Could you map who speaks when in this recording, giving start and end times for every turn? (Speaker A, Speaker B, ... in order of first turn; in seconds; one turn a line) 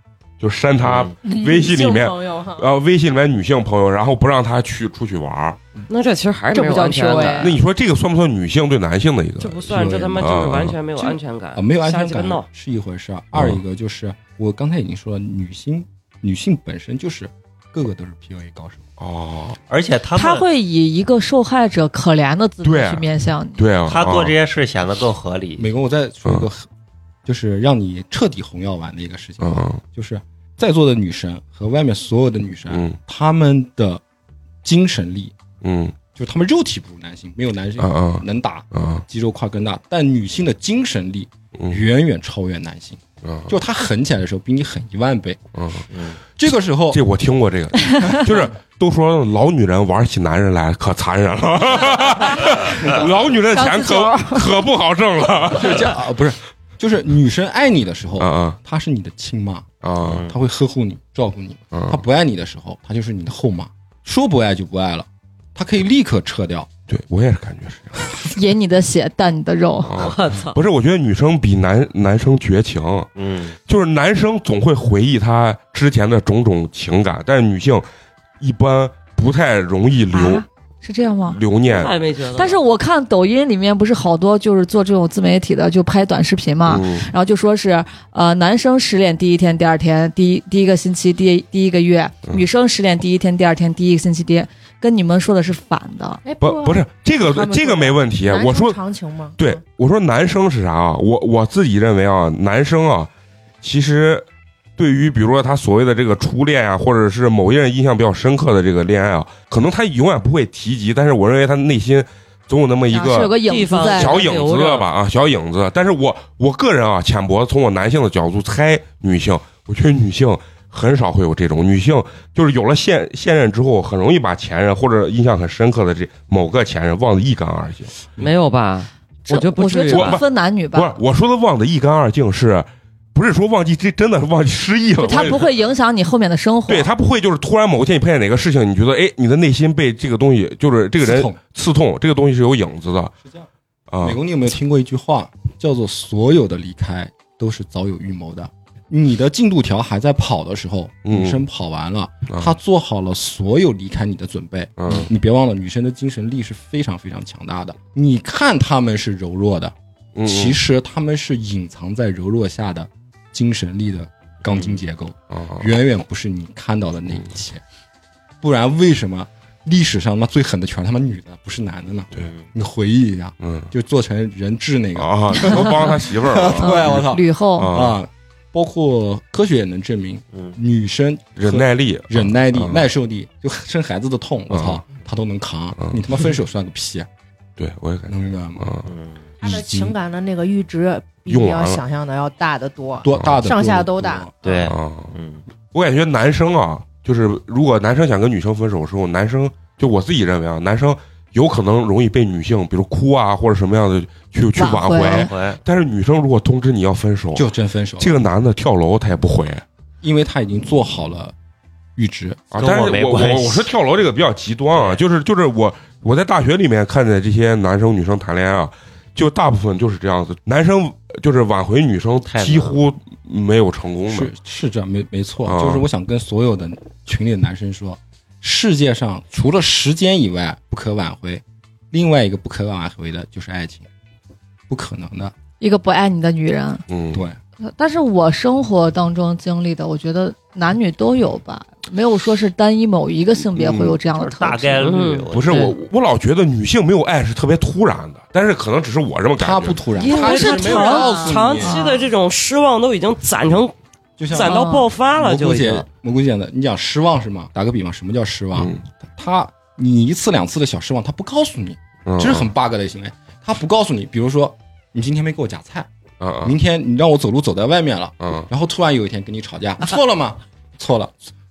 Speaker A: 0.4-5.6
Speaker B: 0.9-1.1
Speaker C: 1.3-2.0
Speaker D: 2.0-2.5
Speaker E: 5.9-7.6
Speaker C: 6.5-7.5
Speaker A: 7.4-10.8
Speaker E: 9.4-12.5
Speaker F: 9.7-10.4
Speaker F: 11.0-18.8
Speaker A: 13.3-13.6
Speaker A: 19.0-19.6
Speaker B: 19.7-20.5
Speaker C: 20.1-23.6
Speaker A: 22.6-24.4
Speaker B: 23.9-25.7
Speaker F: 25.6-26.7
Speaker F: 27.2-34.0
Speaker A: 29.4-29.8
Speaker A: 32.7-33.0
Speaker F: 34.6-35.4
Speaker A: 35.6-36.0
Speaker F: 36.1-45.4
Speaker A: 37.8-39.0
Speaker A: 43.2-43.5
Speaker A: 45.6-45.9
Speaker F: 46.4-47.0
Speaker A: 46.9-56.0
Speaker C: 53.5-54.6
Speaker F: 55.5-66.7
Speaker A: 58.2-58.6
Speaker A: 59.8-60.2
Speaker B: 60.0-60.3
Speaker A: 61.7-62.0
Speaker A: 66.9-68.2
Speaker C: 68.2-69.9
Speaker A: 69.9-73.1
Speaker E: 70.0-70.6
Speaker B: 73.2-73.6
Speaker A: 73.7-77.8
Speaker A: 78.4-80.5
Speaker C: 80.1-81.4
Speaker A: 81.3-81.9
Speaker E: 81.7-82.6
Speaker C: 82.4-96.2
Speaker A: 86.7-87.1
Speaker D: 96.2-99.6
Speaker A: 96.4-98.8
Speaker A: 99.4-103.1
Speaker A: 103.6-104.2
Speaker A: 104.8-128.0
Speaker C: 112.9-114.2
Speaker E: 113.4-114.9
Speaker E: 128.2-130.2
Speaker C: 129.3-130.9
Speaker A: 129.9-135.5
Speaker C: 135.0-136.9
Speaker A: 136.7-143.1
Speaker F: 141.0-141.4
Speaker A: 143.9-144.2
Speaker F: 144.0-159.7
Speaker A: 151.1-151.4
Speaker A: 154.8-155.1
Speaker A: 160.2-160.6
Speaker F: 160.2-167.6
Speaker A: 165.3-165.7
Speaker F: 168.4-187.1
Speaker A: 173.4-173.7
Speaker A: 175.0-177.0
Speaker C: 176.6-177.7
Speaker A: 177.6-178.0
Speaker A: 181.4-182.9
Speaker A: 184.5-184.8
Speaker A: 187.6-188.9
Speaker F: 188.1-188.7
Speaker B: 188.9-189.3
Speaker D: 189.4-194.3
Speaker F: 189.5-189.9
Speaker A: 191.3-191.8
Speaker F: 193.0-194.3
Speaker B: 194.4-195.4
Speaker A: 194.6-195.1
Speaker A: 195.7-207.5
Speaker C: 204.6-205.3
Speaker B: 204.8-205.6
Speaker F: 207.3-208.2
Speaker A: 208.0-209.6
Speaker F: 210.0-211.3
Speaker F: 212.0-212.5
Speaker A: 212.5-224.3
Speaker B: 212.6-213.7
Speaker B: 214.8-215.0
Speaker B: 222.3-222.8
Speaker F: 224.1-233.9
Speaker A: 225.4-225.8
Speaker F: 234.7-235.3
Speaker C: 235.6-236.8
Speaker A: 236.9-237.2
Speaker F: 237.1-237.4
Speaker C: 237.6-244.8
Speaker A: 243.5-244.0
Speaker B: 244.1-245.8
Speaker E: 244.8-245.7
Speaker A: 245.3-249.8
Speaker F: 249.4-251.8
Speaker E: 249.9-253.8
Speaker C: 250.1-252.0
Speaker F: 254.2-265.9
Speaker E: 254.3-255.8
Speaker C: 254.3-254.9
Speaker A: 258.6-258.8
Speaker A: 262.1-262.5
Speaker A: 266.2-266.5
Speaker F: 266.4-271.2
Speaker A: 268.2-268.5